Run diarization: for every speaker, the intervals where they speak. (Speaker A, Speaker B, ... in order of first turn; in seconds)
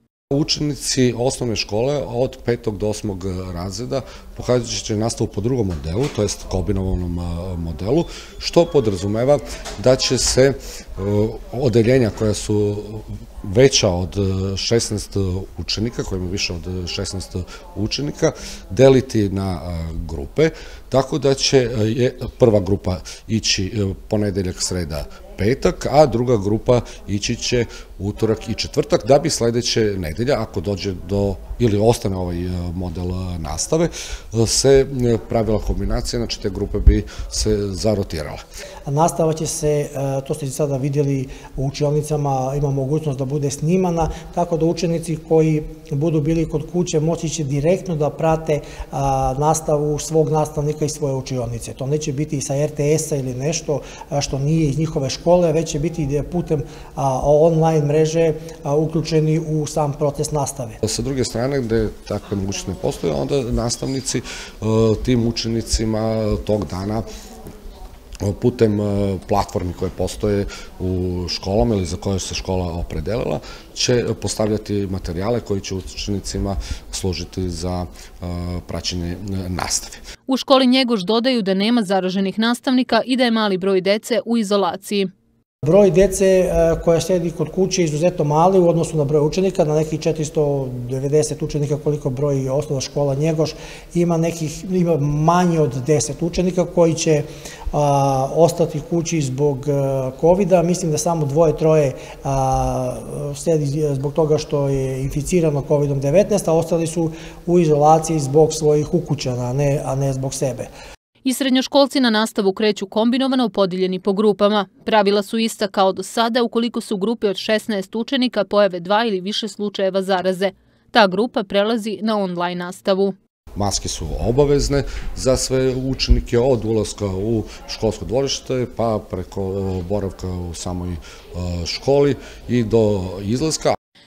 Speaker A: 0.3-38.4, 60.8-67.1, 68.2-80.0, 123.5-133.8
Speaker B: 38.9-60.8, 85.6-110.7
Speaker C: 80.3-85.1, 111.2-123.2